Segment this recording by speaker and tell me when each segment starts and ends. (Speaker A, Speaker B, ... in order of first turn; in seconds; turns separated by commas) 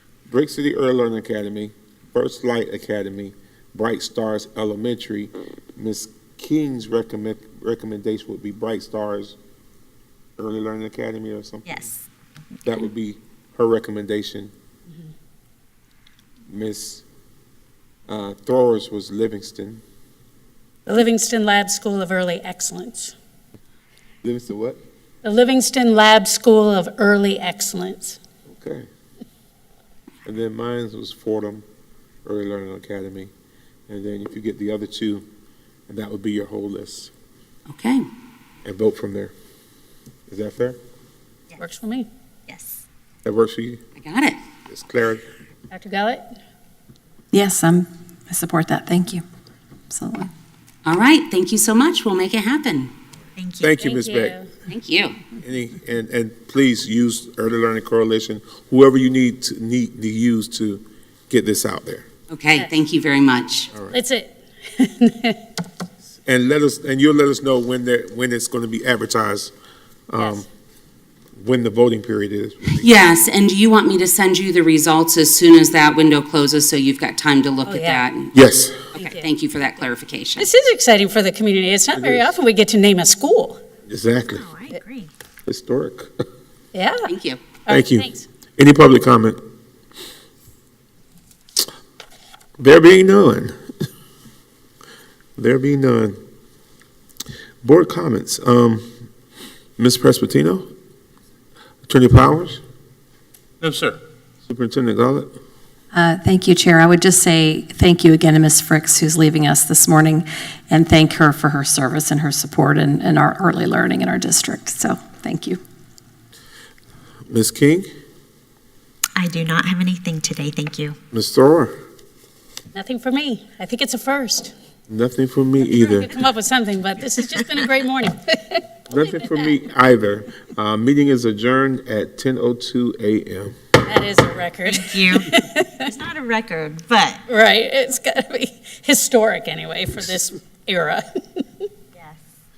Speaker A: 0.3-9.4, Speaker A: 10.4-11.8, Speaker B: 11.7-12.0, Speaker A: 12.6-14.5, Speaker A: 16.5-17.0, Speaker A: 18.1-19.8, Speaker C: 20.9-23.1, Speaker A: 24.2-24.8, Speaker C: 25.2-28.2, Speaker A: 28.5-28.9, Speaker A: 30.3-31.6, Speaker A: 32.2-33.3, Speaker A: 33.9-35.2, Speaker A: 35.9-37.1, Speaker D: 37.7-38.0, Speaker A: 38.6-39.3, Speaker A: 40.3-40.8, Speaker C: 41.6-42.1, Speaker B: 42.5-42.8, Speaker A: 43.2-43.8, Speaker D: 44.0-44.4, Speaker A: 44.7-45.2, Speaker C: 45.7-46.2, Speaker E: 47.3-49.2, Speaker E: 49.9-50.3, Speaker D: 50.9-52.9, Speaker B: 53.4-53.7, Speaker A: 53.6-54.4, Speaker C: 53.8-54.5, Speaker D: 54.7-55.2, Speaker A: 55.4-62.1, Speaker D: 62.3-63.7, Speaker C: 63.9-65.4, Speaker A: 66.2-69.5, Speaker A: 70.1-70.5, Speaker A: 71.4-72.9, Speaker D: 72.7-78.3, Speaker C: 77.7-78.1, Speaker A: 78.3-78.9, Speaker D: 78.9-80.5, Speaker C: 79.0-79.3, Speaker C: 80.4-83.6, Speaker A: 81.9-82.3, Speaker A: 83.9-84.4, Speaker B: 84.3-85.1, Speaker A: 85.5-86.1, Speaker C: 86.7-87.1, Speaker D: 87.1-87.4, Speaker C: 87.7-88.2, Speaker A: 87.7-89.4, Speaker A: 92.6-93.6, Speaker A: 95.4-96.2, Speaker A: 97.6-98.9, Speaker A: 99.8-100.7, Speaker A: 101.8-102.6, Speaker A: 104.4-105.3, Speaker E: 105.9-115.6, Speaker A: 117.3-117.9, Speaker B: 119.2-121.0, Speaker A: 121.1-121.7, Speaker C: 122.7-124.5, Speaker A: 124.9-126.1, Speaker C: 125.7-129.5, Speaker A: 128.9-133.5, Speaker C: 133.8-135.8, Speaker B: 134.7-135.3, Speaker B: 135.8-137.2, Speaker C: 137.3-141.4, Speaker B: 141.9-142.2